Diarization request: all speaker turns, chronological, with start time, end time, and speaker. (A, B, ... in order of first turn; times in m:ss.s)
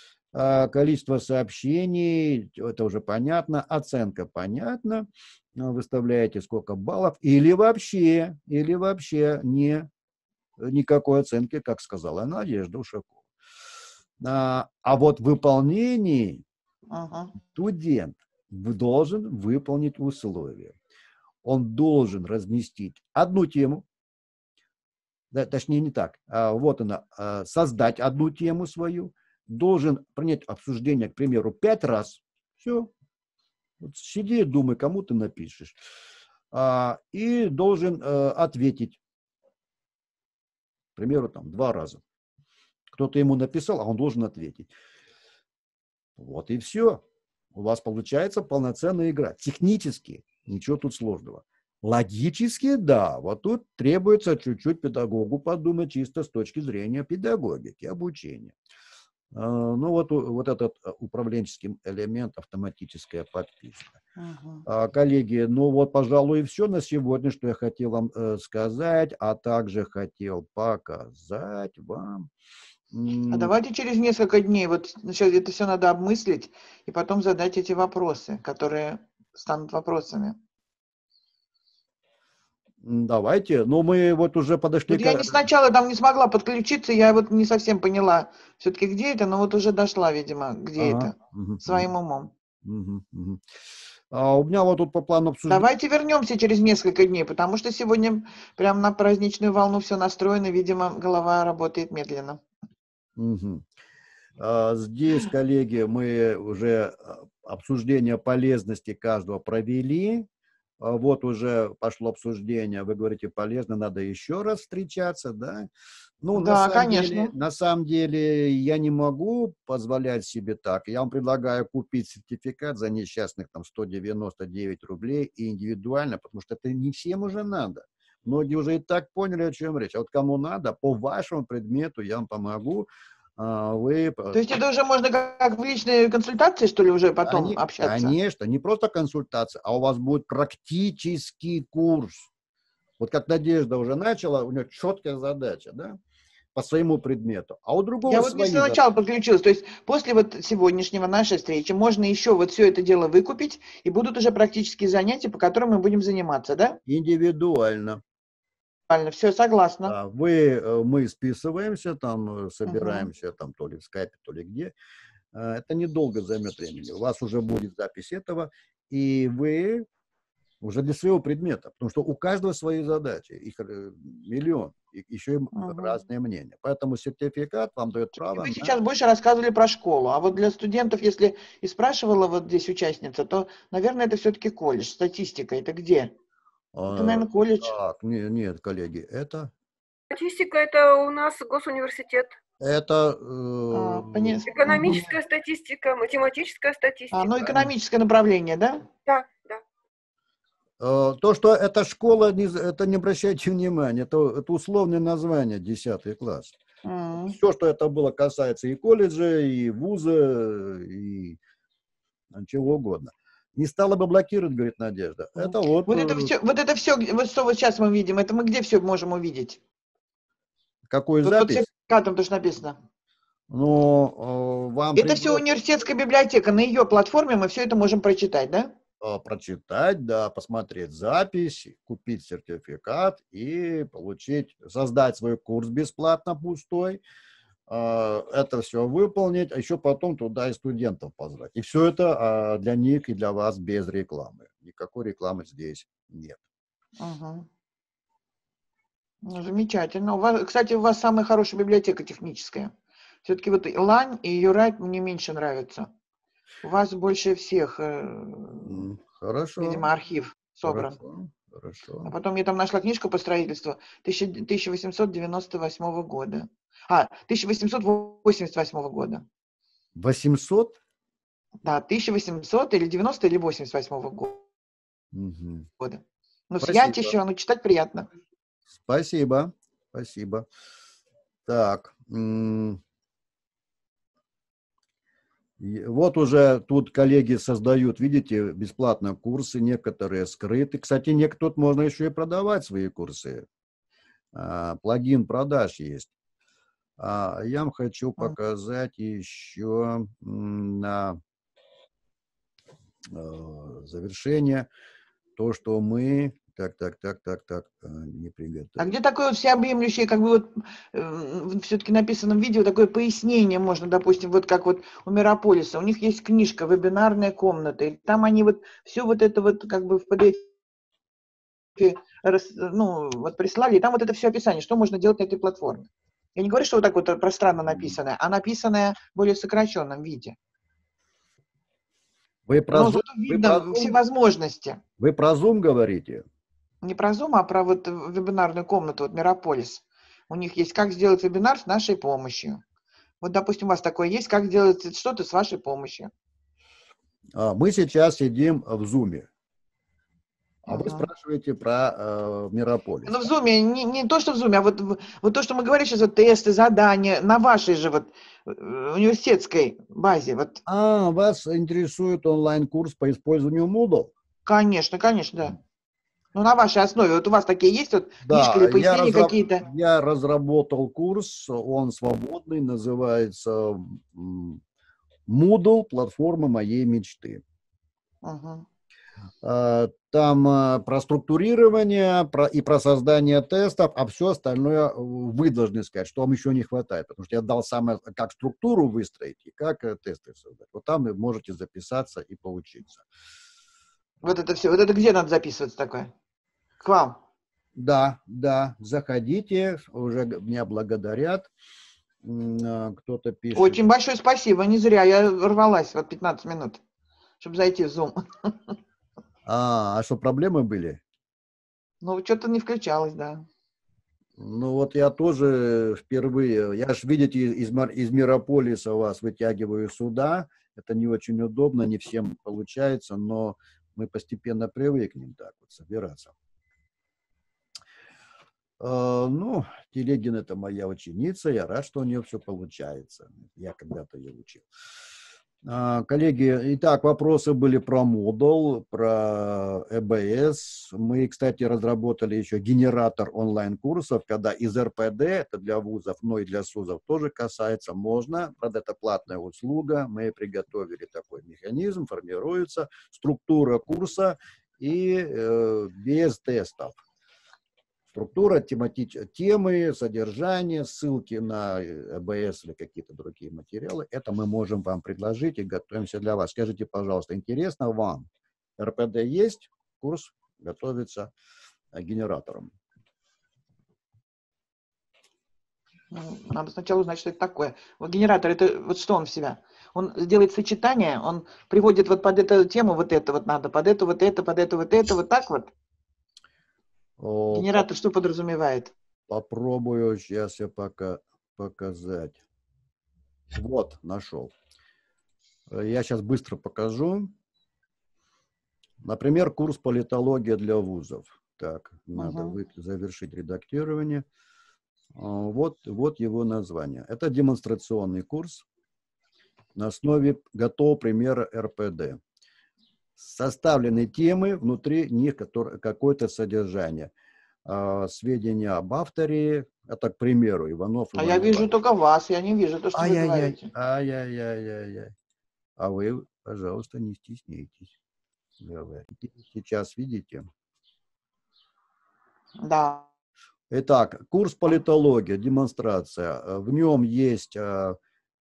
0:00.3-0:09.9 A
0:10.6-0:13.2 A
0:14.2-0:16.4 A
0:16.9-0:17.3 B
0:17.5-0:20.8 A
0:21.4-0:23.8 A
0:25.3-0:32.9 A
0:33.8-0:35.8 A
0:36.5-0:39.0 A
0:41.0-0:42.0 A
0:42.9-0:44.7 A
0:46.2-0:47.0 A
0:47.5-0:58.6 A
0:59.3-1:04.0 A
1:04.2-1:04.6 B
1:04.7-1:12.3 A
1:12.9-1:13.5 A
1:13.3-1:20.4 B
1:22.8-1:25.4 A
1:24.9-1:32.3 B
1:30.8-1:31.9 A
1:32.6-1:33.4 A
1:34.1-1:35.7 A
1:35.5-1:42.4 B
1:43.2-1:43.6 A
1:44.4-1:50.3 A
1:50.8-1:55.7 A
1:56.2-2:14.4 A
1:56.4-1:57.3 B
2:14.3-2:18.2 B
2:17.2-2:22.3 A
2:23.0-2:26.0 A
2:26.6-2:28.8 A
2:28.1-2:36.8 B
2:36.9-2:38.0 A
2:38.9-2:39.9 B
2:39.9-2:44.7 A
2:42.7-2:43.1 B
2:45.3-2:49.9 A
2:50.6-2:58.8 A
2:55.5-2:56.0 B
2:58.2-3:06.1 B
3:06.7-3:09.5 A
3:06.9-3:07.7 B
3:10.1-3:12.4 C
3:12.6-3:15.0 A
3:13.7-3:15.2 B
3:14.5-3:17.4 C
3:17.1-3:18.9 B
3:17.4-3:17.7 A
3:19.0-3:19.6 C
3:20.8-3:26.5 A
3:26.8-3:27.4 B
3:27.3-3:31.4 A
3:32.3-3:36.3 A
3:35.4-3:39.6 B
3:40.9-3:41.7 A
3:41.2-3:42.8 B
3:43.5-3:45.4 A
3:45.0-3:48.7 B
3:49.0-3:57.0 A
3:57.7-4:06.4 A
4:07.0-4:07.5 B
4:09.2-4:12.7 B
4:13.2-4:15.9 B
4:16.6-4:18.8 B
4:18.6-4:19.9 A
4:19.6-4:21.0 B
4:20.7-4:22.1 A
4:22.0-4:29.2 B
4:30.0-4:30.8 A
4:31.6-4:34.4 B
4:35.1-4:35.7 A
4:35.8-4:38.1 B
4:36.6-4:37.2 A
4:38.7-4:40.4 A
4:41.5-4:42.8 A
4:45.6-4:53.5 A
4:54.3-4:56.1 A
4:57.0-5:01.2 A
5:03.1-5:04.7 A
5:05.4-5:08.9 A
5:08.8-5:20.5 B
5:21.8-5:30.4 B
5:27.7-5:28.0 A
5:32.5-5:34.0 A
5:32.7-5:34.8 B
5:35.0-5:36.2 A
5:36.8-5:42.6 B
5:43.2-5:46.1 B
5:47.4-5:49.3 A
5:50.7-5:51.1 B
5:50.7-5:53.3 A
5:53.1-6:00.6 B
6:00.7-6:04.1 A
6:04.5-6:05.6 B
6:06.3-6:09.6 B
6:08.3-6:14.6 A
6:15.3-6:17.4 A
6:18.2-6:18.7 B
6:19.4-6:33.0 A
6:34.2-6:36.1 B
6:36.8-6:37.2 B
6:37.8-6:41.5 A
6:42.2-6:43.8 A
6:43.6-6:46.8 B
6:47.4-6:48.7 B
6:49.5-6:51.0 A
6:52.0-6:53.4 B
6:54.4-7:06.3 A
7:08.8-7:14.6 A
7:15.6-7:37.0 A
7:38.1-7:48.3 A
7:48.8-7:51.3 A
7:51.9-7:52.7 A
7:56.1-8:05.7 B
8:07.2-8:07.9 A
8:07.5-8:08.9 B
8:09.3-8:12.4 A
8:13.5-8:14.5 A
8:15.7-8:17.3 A
8:19.0-8:24.3 A
8:22.2-8:22.6 B
8:25.2-8:28.6 A
8:29.8-8:32.2 A
8:33.2-8:37.1 A
8:37.7-8:41.7 A
8:41.2-8:43.7 B
8:43.0-8:45.1 A
8:45.8-8:47.9 A
8:48.6-8:50.5 A
8:52.6-8:53.1 B
8:53.7-8:58.0 A